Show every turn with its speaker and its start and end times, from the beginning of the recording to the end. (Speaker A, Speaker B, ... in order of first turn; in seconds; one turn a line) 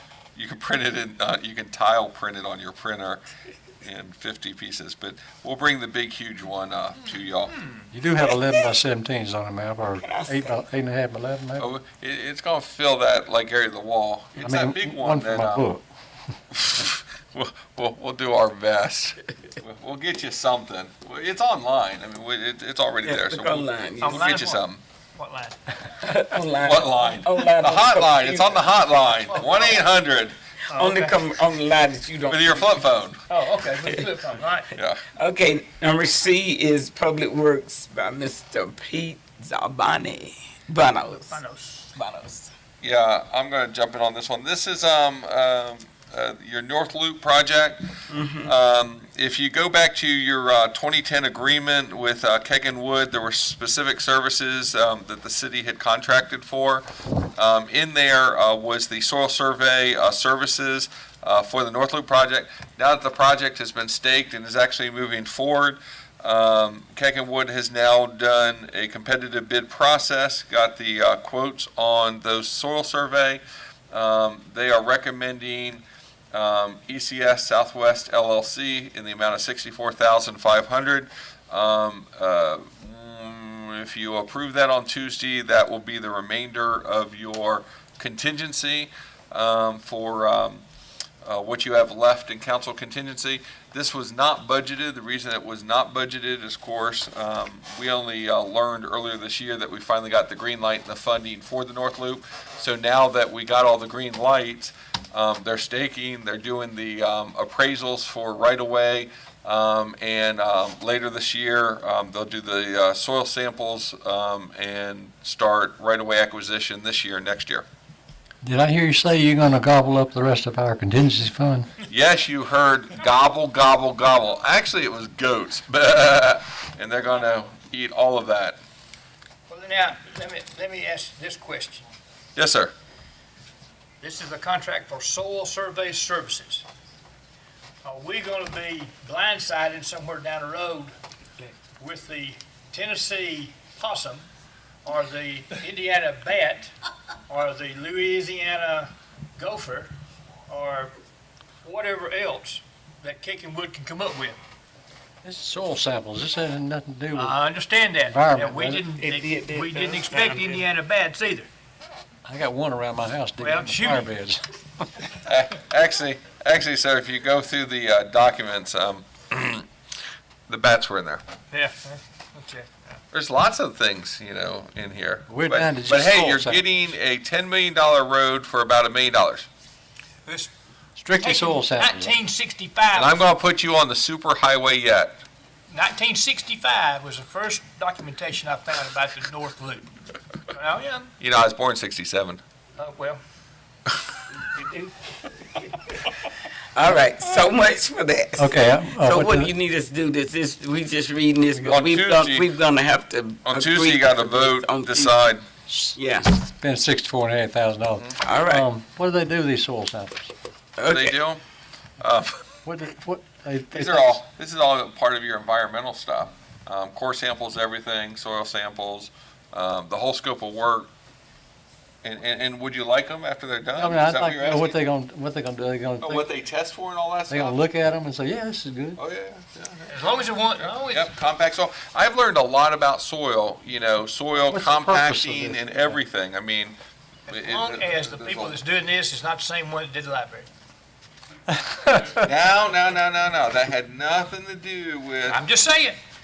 Speaker A: 0.3-3.2
Speaker A: 3.8-7.6
Speaker B: 7.9-11.7
Speaker C: 10.0-10.6
Speaker A: 11.6-15.7
Speaker B: 14.4-15.8
Speaker A: 16.5-24.8
Speaker C: 23.0-24.3
Speaker D: 24.0-25.6
Speaker C: 26.0-28.7
Speaker A: 26.6-30.4
Speaker D: 29.2-29.9
Speaker D: 30.7-31.2
Speaker C: 30.7-32.7
Speaker A: 32.3-33.2
Speaker D: 33.3-34.7
Speaker A: 34.7-35.0
Speaker C: 35.1-41.4
Speaker D: 41.0-42.0
Speaker C: 41.9-42.5
Speaker A: 42.8-47.8
Speaker C: 48.1-48.5
Speaker A: 48.4-56.8
Speaker A: 57.4-90.6
Speaker A: 91.2-117.7
Speaker B: 118.4-121.7
Speaker A: 121.8-128.6
Speaker D: 129.5-131.8
Speaker A: 132.3-132.7
Speaker D: 134.0-136.6
Speaker D: 137.8-140.9
Speaker D: 141.6-144.3
Speaker D: 144.8-146.7
Speaker D: 147.3-149.9
Speaker D: 150.5-150.9
Speaker D: 151.6-154.4
Speaker B: 155.2-157.4
Speaker D: 157.1-161.5
Speaker B: 158.0-158.8
Speaker C: 159.0-160.6
Speaker B: 162.2-164.4
Speaker D: 163.4-164.1
Speaker A: 165.2-169.7
Speaker A: 170.5-171.2
Speaker D: 171.5-173.0
Speaker A: 173.1-179.5
Speaker B: 175.3-176.6
Speaker B: 181.0-182.1
Speaker D: 181.2-183.3
Speaker A: 182.9-185.2
Speaker D: 185.7-189.9
Speaker D: 190.5-191.1
Speaker A: 191.2-192.4
Speaker D: 192.8-193.2
Speaker D: 194.4-194.9
Speaker C: 196.7-205.3
Speaker B: 198.4-199.5
Speaker A: 201.7-202.5
Speaker A: 203.4-205.4
Speaker B: 205.7-210.3
Speaker C: 205.9-206.4
Speaker C: 208.2-208.7
Speaker C: 210.8-211.2
Speaker A: 210.9-211.4
Speaker A: 212.0-212.6
Speaker B: 212.7-214.2
Speaker A: 213.7-220.9
Speaker A: 222.0-224.8
Speaker B: 223.8-226.3
Speaker A: 226.0-227.6
Speaker B: 227.3-229.0
Speaker A: 229.0-236.8
Speaker D: 229.9-231.1
Speaker B: 234.5-236.0
Speaker D: 237.3-240.5
Speaker A: 237.3-238.6
Speaker B: 241.7-242.1
Speaker A: 242.1-245.4
Speaker D: 245.2-246.0